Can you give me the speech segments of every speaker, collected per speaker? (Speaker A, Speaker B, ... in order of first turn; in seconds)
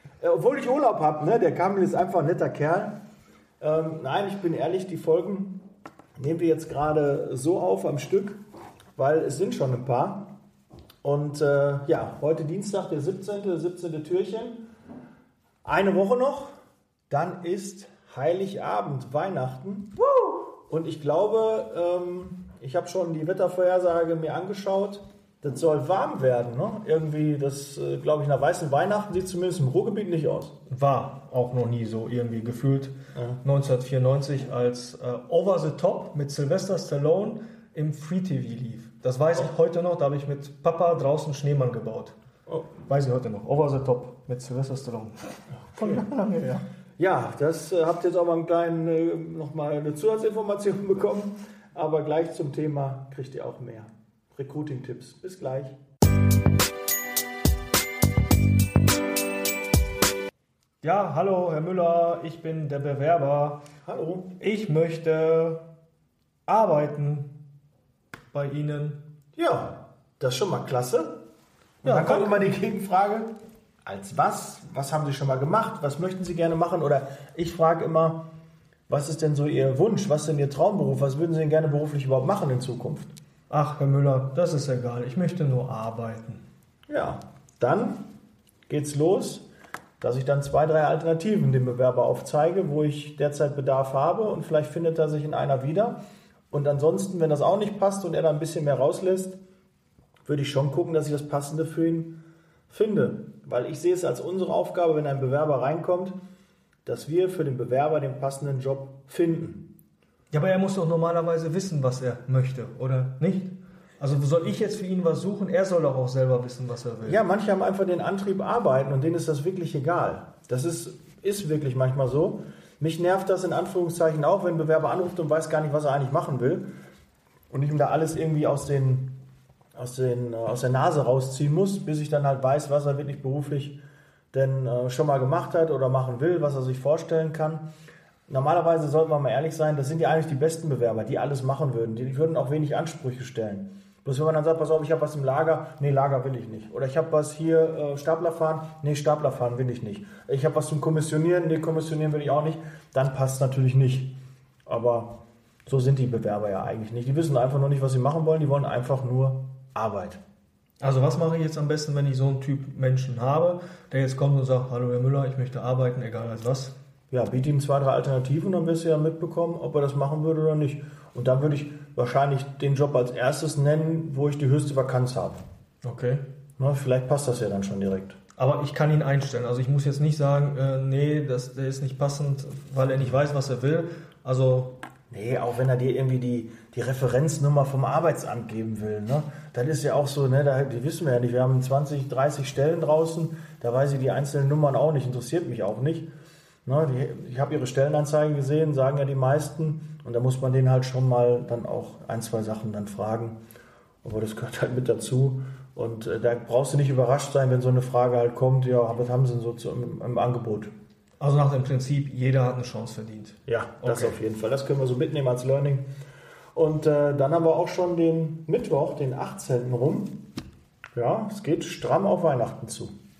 Speaker A: 0.2-2.9, 3.6-5.6, 6.2-8.4, 8.9-10.3, 11.0-14.6, 15.6-16.5, 17.1-30.5, 33.1-33.4, 47.0-55.8, 63.8-64.3, 69.3-71.2, 71.8-73.3, 73.8-78.2, 78.9-83.1, 86.9-88.0, 88.7-89.5, 90.0-96.0, 96.5-99.4, 100.2-102.1, 102.7-106.1, 106.8-109.6, 117.0-126.6, 127.5-129.1, 129.7-133.8, 134.3-137.6, 138.3-154.1, 154.7-155.1, 155.7-160.2, 167.1-175.4, 176.6-178.2, 185.1-196.1, 196.7-203.4, 204.0-210.7, 213.4-215.8, 216.5-220.1, 220.9-222.9
Speaker B: 30.7-42.1, 42.8-45.1, 45.7-46.6, 60.8-63.6, 64.4-65.6, 66.5-67.3, 68.3-69.0, 71.8-72.4, 83.5-86.4, 110.3-117.2, 160.8-166.7, 175.8-176.2, 178.4-184.7, 211.2-214.2